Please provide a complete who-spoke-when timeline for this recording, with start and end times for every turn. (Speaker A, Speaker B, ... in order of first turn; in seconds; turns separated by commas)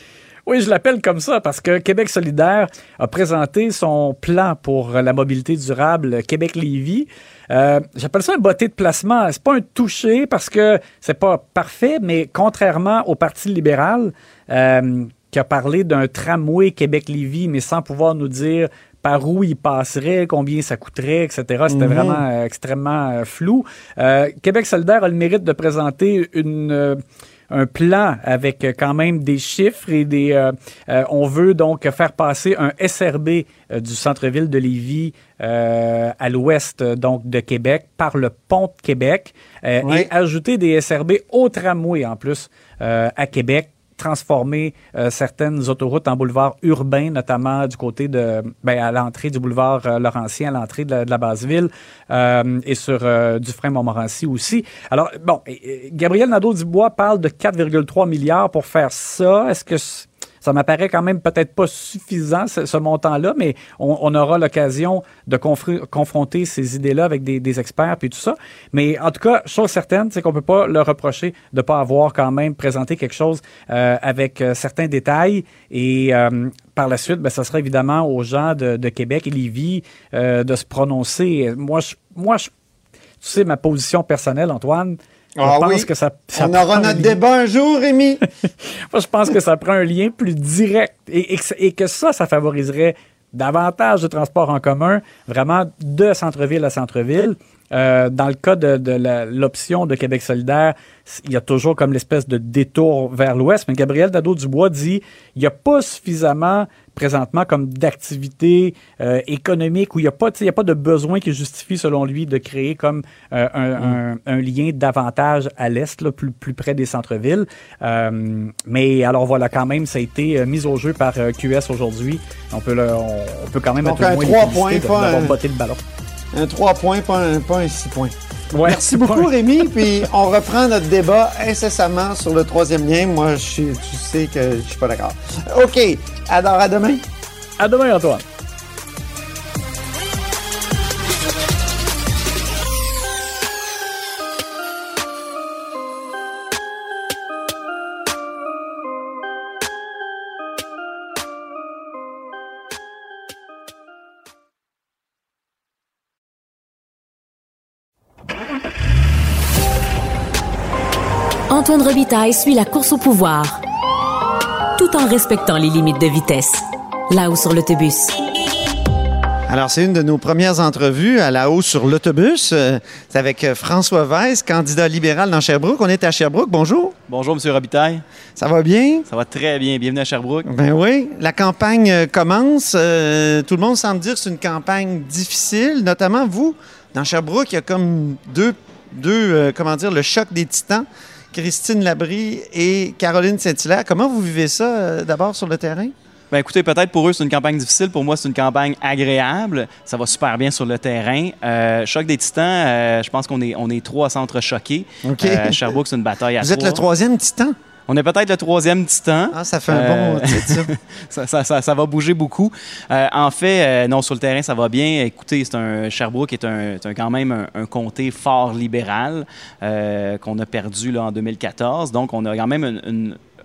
Speaker A: 0.5-82.5, Speaker B: 21.7-22.2, Speaker B: 39.8-40.1, Speaker A: 83.2-87.2, Speaker B: 85.4-88.2, Speaker A: 88.6-125.8, Speaker B: 123.8-125.3, Speaker B: 126.3-137.0, Speaker A: 128.5-129.3, Speaker A: 137.6-138.2, Speaker C: 161.5-163.6, Speaker C: 164.8-168.2, Speaker B: 169.5-177.0, Speaker D: 177.1-178.0, Speaker B: 178.4-179.1, Speaker D: 179.1-180.5, Speaker B: 180.5-195.9, Speaker D: 196.3-206.8, Speaker B: 205.0-205.8, Speaker B: 206.4-207.6, Speaker D: 207.9-223.2, Speaker B: 209.3-210.7